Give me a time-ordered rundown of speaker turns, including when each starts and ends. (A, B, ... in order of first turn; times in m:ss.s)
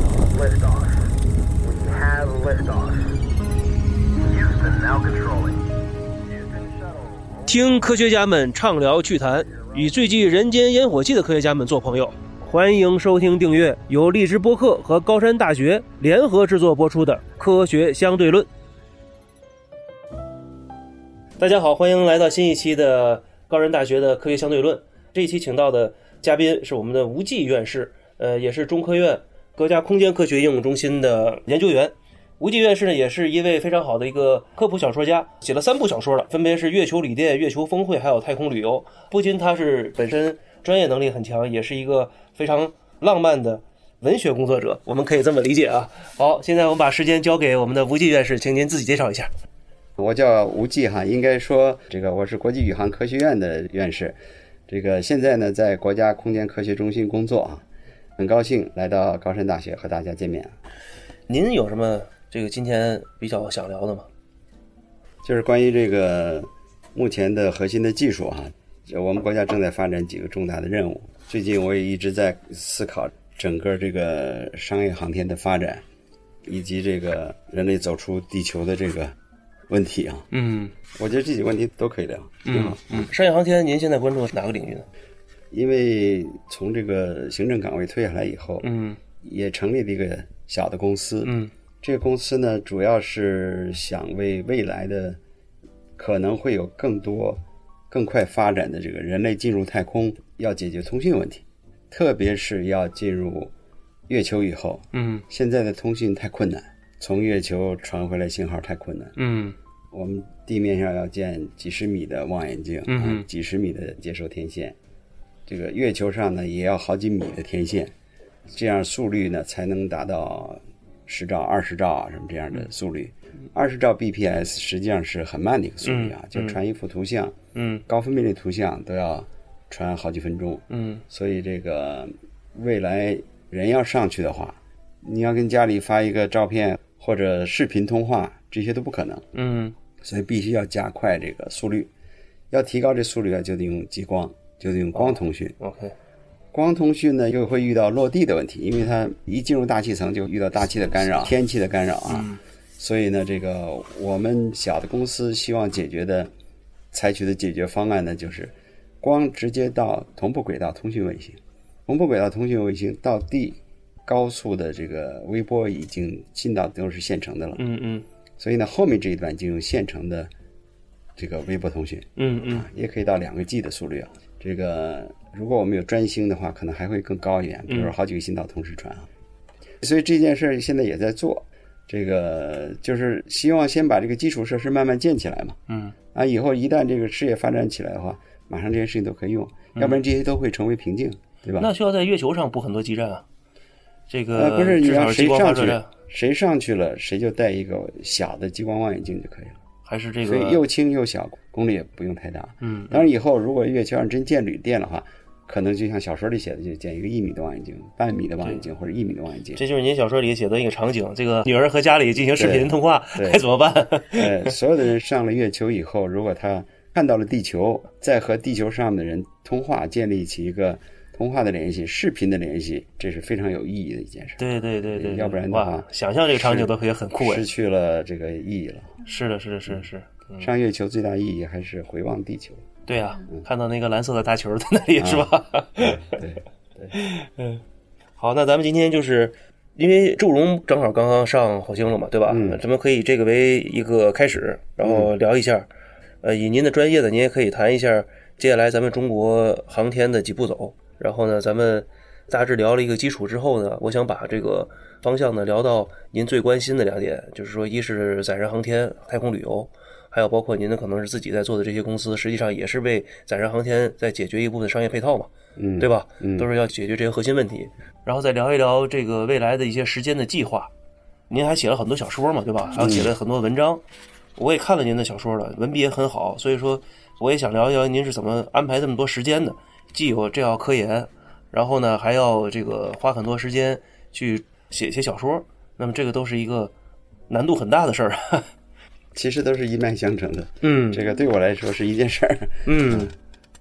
0:00.3-0:01.1 A
0:01.6-0:03.2 A
0:04.2-0:05.6 A
0:06.3-0:07.9 A
0:07.4-0:18.5 B
0:09.5-0:09.9 A
0:21.4-0:49.3 B
0:50.0-0:54.2 C
0:54.7-0:57.6 C
0:58.2-1:00.5 C
1:01.3-1:04.1 B
1:05.2-1:15.8 C
1:16.4-1:19.1 C
1:19.7-1:20.3 C
1:20.3-1:20.7 B
1:20.9-1:23.1 C
1:22.4-1:24.8 B
1:25.5-1:28.7 C
1:28.6-1:29.0 B
1:29.2-1:35.2 C
1:31.2-1:31.5 B
1:36.0-1:43.5 C
1:44.1-1:49.2 C
1:44.9-1:45.2 B
1:49.2-1:49.6 B
1:49.9-1:54.8 C
1:52.9-1:53.2 B
1:55.5-1:57.9 C
1:58.5-2:07.3 C
2:05.8-2:06.6 B
2:07.5-2:07.8 B
2:07.9-2:19.2 C
2:10.7-2:11.0 B
2:19.3-2:19.7 B
2:20.0-2:21.9 C
2:22.5-2:25.6 C
2:24.9-2:25.9 B
2:26.5-2:36.3 C
2:32.1-2:32.4 B
2:36.9-2:47.6 C
2:47.6-2:48.0 B
2:48.4-2:50.3 C
2:51.2-2:59.1 C
2:52.2-2:52.7 B
2:57.7-2:57.9 B
2:59.8-3:05.6 C
3:05.7-3:05.9 B
3:06.1-3:11.7 C
3:09.7-3:10.0 B
3:11.6-3:13.2 B
3:14.1-3:15.9 B
3:14.3-3:19.6 C
3:19.8-3:20.6 B
3:20.2-3:29.6 C
3:22.6-3:23.0 B
3:29.6-3:34.5 B
3:32.4-3:33.4 C
3:34.1-3:49.0 C
3:44.4-3:47.4 B
3:49.0-3:50.5 B
3:50.4-3:52.6 C
3:52.9-3:56.2 B
3:55.0-3:56.9 C
3:56.9-3:57.6 B
3:58.2-4:05.7 B
4:02.3-4:02.6 C
4:04.8-4:05.1 C
4:06.2-4:30.7 B
4:25.6-4:26.5 C
4:31.3-4:33.8 B
4:32.8-4:33.1 C
4:34.4-4:46.7 B
4:47.3-4:48.5 B
4:49.1-4:53.1 C
4:50.6-4:51.0 B
4:52.6-4:53.1 B